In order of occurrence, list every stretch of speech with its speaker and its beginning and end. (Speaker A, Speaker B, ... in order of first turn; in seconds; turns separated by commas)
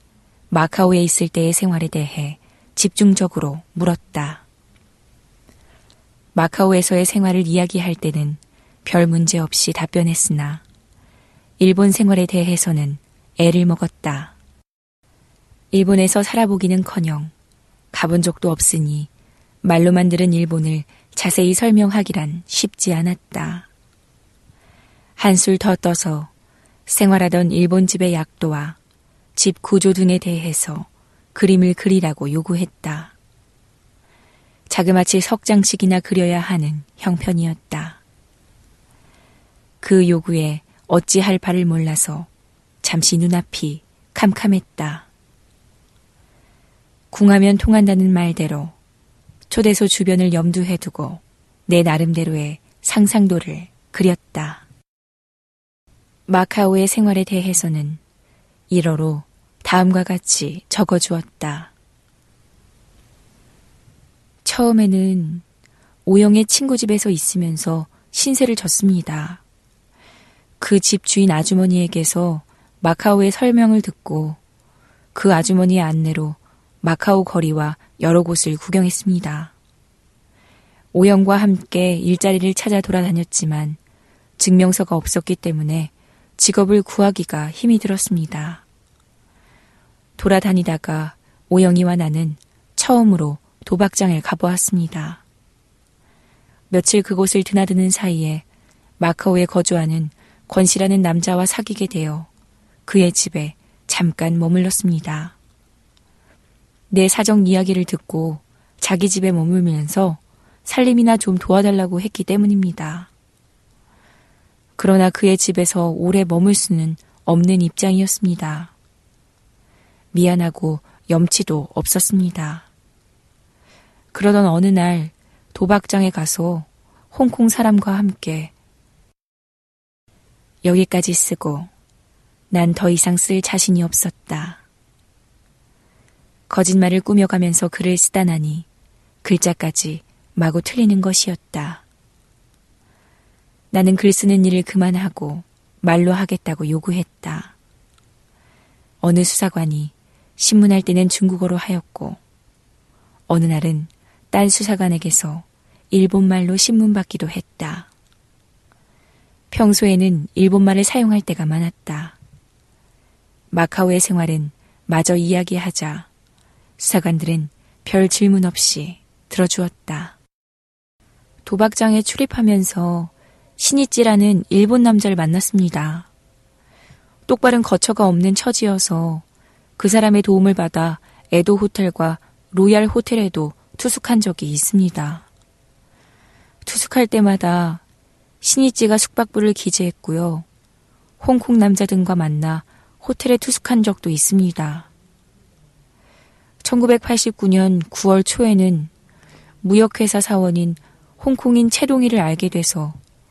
Speaker A: 0.5-4.4, Speaker A: 6.3-10.6, Speaker A: 11.6-14.3, Speaker A: 15.7-17.3, Speaker A: 17.9-19.1, Speaker A: 19.6-23.7, Speaker A: 25.2-26.3, Speaker A: 26.9-28.8, Speaker A: 29.3-33.1, Speaker A: 34.7-38.0, Speaker A: 39.8-42.3, Speaker A: 42.8-45.1, Speaker A: 47.1-48.7, Speaker A: 49.5-54.6, Speaker A: 56.3-58.0, Speaker A: 58.7-61.7, Speaker A: 64.4-65.4, Speaker A: 66.0-69.4, Speaker A: 70.6-74.4, Speaker A: 75.1-79.5, Speaker A: 80.9-83.8, Speaker A: 84.4-88.6, Speaker A: 90.2-95.2, Speaker A: 96.7-98.4, Speaker A: 99.0-102.3, Speaker A: 102.8-105.3, Speaker A: 106.9-113.1, Speaker A: 114.8-118.7, Speaker A: 120.1-122.7, Speaker A: 124.1-128.5, Speaker A: 130.6-131.7, Speaker A: 132.5-134.6, Speaker A: 136.5-138.7, Speaker A: 139.2-141.8, Speaker A: 143.7-147.5, Speaker A: 149.0-152.2, Speaker A: 153.3-157.9, Speaker A: 159.5-162.2, Speaker A: 163.5-166.1, Speaker A: 166.8-170.2, Speaker A: 171.4-176.1, Speaker A: 177.3-179.2, Speaker A: 179.8-185.3, Speaker A: 186.6-187.8, Speaker A: 188.4-190.4, Speaker A: 191.2-194.9, Speaker A: 196.6-198.9, Speaker A: 199.6-203.0